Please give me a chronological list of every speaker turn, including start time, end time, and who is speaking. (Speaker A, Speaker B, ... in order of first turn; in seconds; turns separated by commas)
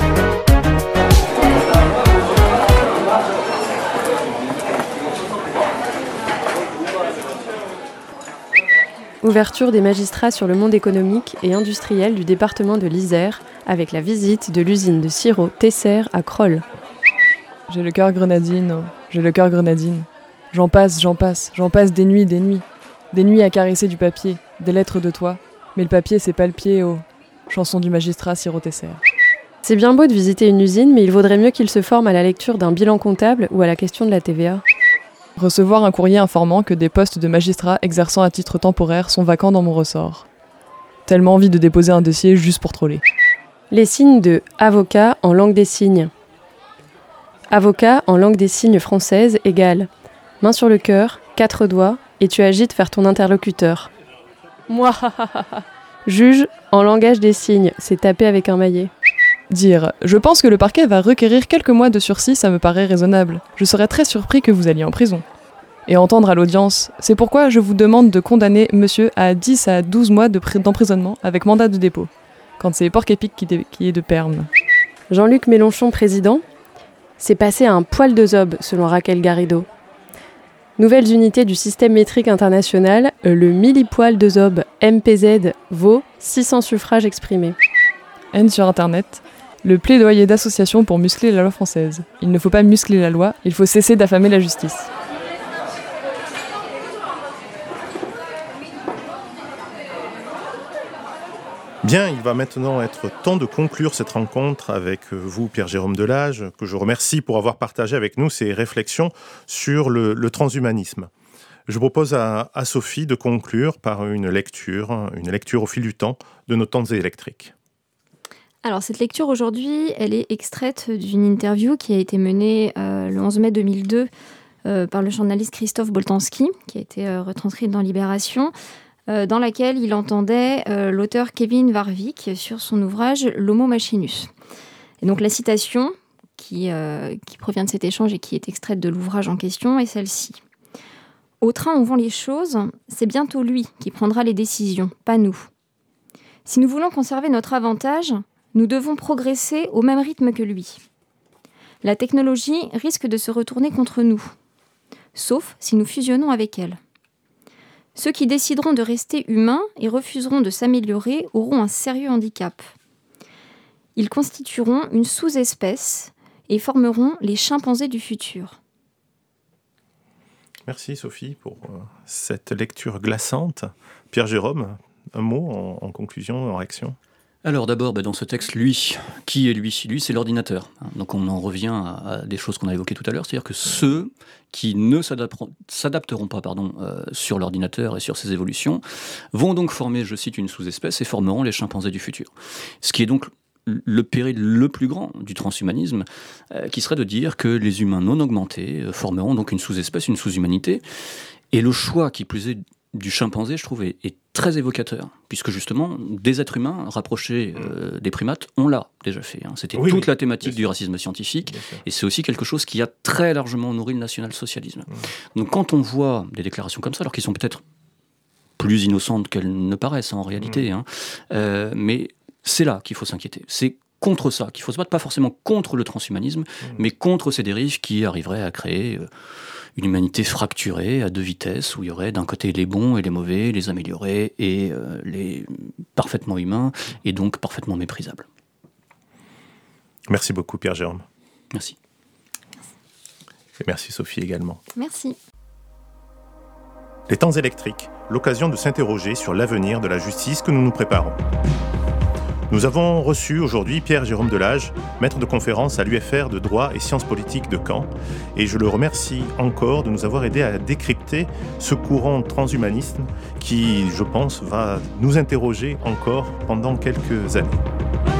Speaker A: 9.2-16.6, Speaker B: 17.7-29.0, Speaker A: 29.6-34.6, Speaker B: 35.4-40.3, Speaker B: 41.1-43.0, Speaker A: 43.7-46.1, Speaker A: 47.5-49.9, Speaker A: 50.4-53.9, Speaker A: 54.7-58.9, Speaker B: 59.5-65.2, Speaker B: 65.9-74.5, Speaker A: 75.1-76.4, Speaker A: 77.2-79.7, Speaker A: 80.8-87.6, Speaker B: 88.3-94.9, Speaker C: 101.8-111.1, Speaker C: 111.7-117.5, Speaker D: 118.6-124.1, Speaker D: 124.6-128.5, Speaker D: 129.1-134.3, Speaker D: 135.0-140.4, Speaker D: 141.4-145.5, Speaker D: 146.4-150.8, Speaker D: 151.8-154.3, Speaker D: 155.1-156.8, Speaker D: 157.9-162.7, Speaker D: 163.9-168.6, Speaker C: 170.7-176.9, Speaker E: 177.4-200.8, Speaker E: 201.5-217.6, Speaker C: 209.8-210.5, Speaker C: 211.5-211.8, Speaker E: 218.6-229.1, Speaker E: 229.8-238.3, Speaker C: 240.1-241.1, Speaker C: 243.6-244.6, Speaker D: 244.8-245.2, Speaker C: 247.1-251.2, Speaker C: 252.5-267.6